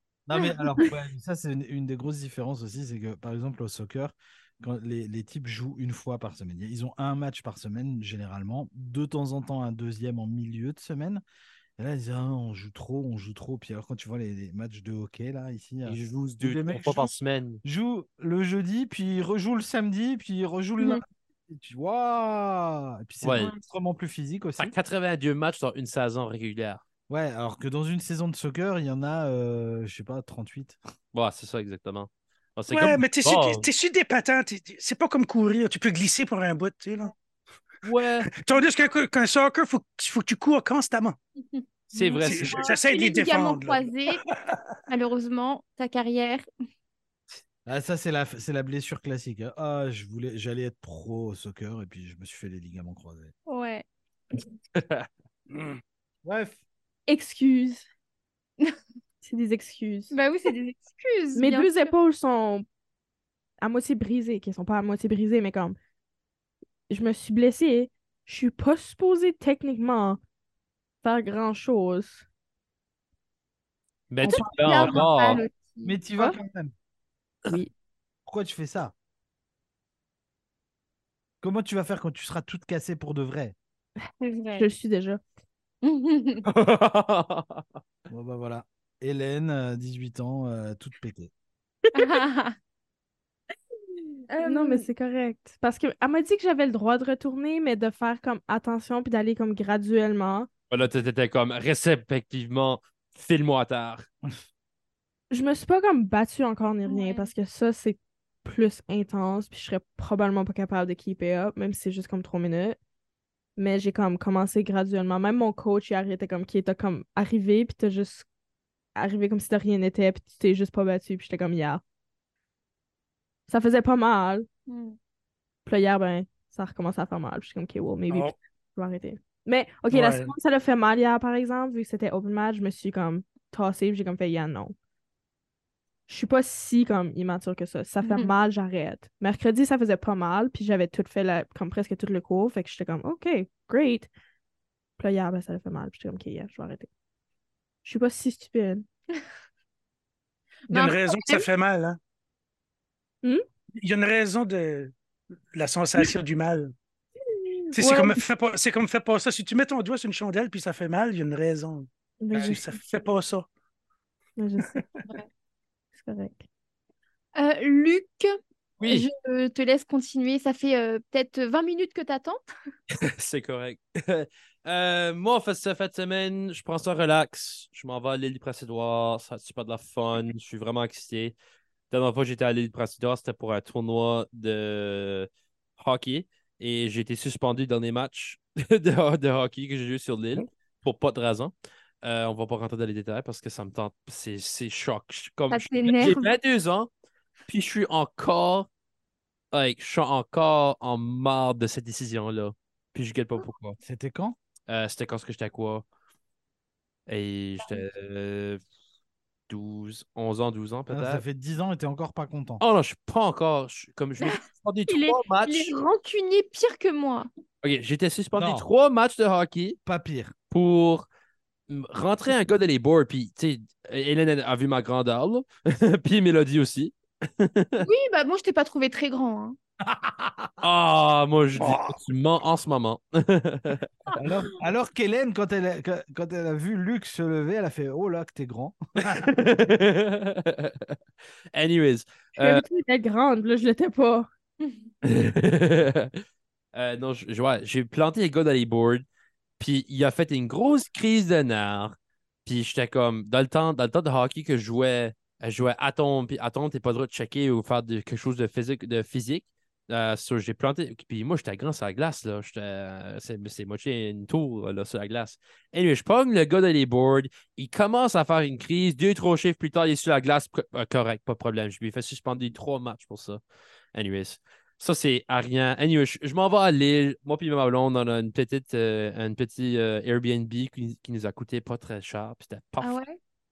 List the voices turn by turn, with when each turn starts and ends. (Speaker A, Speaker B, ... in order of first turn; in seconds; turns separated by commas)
Speaker A: 0.3-11.2, Speaker B: 0.4-0.9, Speaker A: 11.8-24.8, Speaker C: 15.9-17.6, Speaker C: 23.2-23.5, Speaker C: 24.6-26.8, Speaker A: 27.1-30.8, Speaker C: 31.1-33.7, Speaker D: 32.7-37.1, Speaker C: 37.8-38.3, Speaker D: 38.2-41.2, Speaker B: 41.5-44.2, Speaker C: 41.9-42.6, Speaker D: 42.2-44.6, Speaker B: 44.9-46.5, Speaker A: 47.7-53.3, Speaker B: 53.5-53.9, Speaker C: 54.8-55.1, Speaker D: 55.5-55.8, Speaker A: 56.2-56.6, Speaker E: 57.1-57.9, Speaker E: 59.2-60.1, Speaker B: 60.1-61.9, Speaker E: 61.4-62.7, Speaker E: 63.6-65.8, Speaker E: 66.9-70.2, Speaker E: 71.0-72.3, Speaker C: 74.1-75.5, Speaker E: 74.2-75.0, Speaker B: 74.2-76.0, Speaker A: 75.8-76.7, Speaker A: 78.3-78.9, Speaker A: 81.4-83.6, Speaker B: 84.2-84.7, Speaker E: 84.5-85.2, Speaker B: 85.8-86.5, Speaker C: 86.5-87.6, Speaker A: 88.1-91.3, Speaker B: 92.0-92.5, Speaker B: 94.3-94.9, Speaker E: 94.4-100.5, Speaker C: 100.7-104.0, Speaker E: 105.3-112.8, Speaker B: 106.9-107.3, Speaker E: 113.6-118.3, Speaker E: 119.0-121.8, Speaker E: 123.5-124.5, Speaker B: 124.7-125.0, Speaker E: 125.7-134.8, Speaker D: 128.1-128.3, Speaker D: 129.9-130.3, Speaker E: 136.1-144.1, Speaker B: 138.0-138.3, Speaker E: 145.0-146.9, Speaker E: 147.8-148.9, Speaker B: 150.7-151.5, Speaker D: 150.7-152.0, Speaker D: 153.8-154.9, Speaker D: 155.5-156.7, Speaker E: 157.3-158.2, Speaker D: 157.8-163.5, Speaker E: 162.2-162.8, Speaker E: 164.4-164.8, Speaker D: 164.6-164.9, Speaker B: 165.0-165.3, Speaker E: 165.9-166.5, Speaker B: 167.3-172.4, Speaker C: 168.8-169.1, Speaker C: 173.0-181.3, Speaker C: 181.9-196.9, Speaker B: 195.5-196.3, Speaker C: 197.5-198.7, Speaker C: 199.5-203.8, Speaker A: 203.8-204.4, Speaker C: 204.7-205.9, Speaker C: 207.1-208.6, Speaker C: 209.5-211.2, Speaker A: 210.9-212.6, Speaker C: 212.6-215.7, Speaker B: 214.2-217.3, Speaker C: 217.6-219.8, Speaker A: 218.4-218.7, Speaker A: 219.9-220.3, Speaker C: 220.5-221.1, Speaker C: 221.7-227.9, Speaker B: 227.8-229.6, Speaker A: 229.9-230.5, Speaker C: 230.6-233.9, Speaker D: 231.6-231.9, Speaker A: 234.2-239.3, Speaker C: 239.0-241.0, Speaker C: 241.5-242.7, Speaker E: 242.4-244.3, Speaker C: 245.0-246.2, Speaker C: 246.7-249.1, Speaker C: 249.6-273.4, Speaker C: 273.9-283.0, Speaker B: 282.8-283.2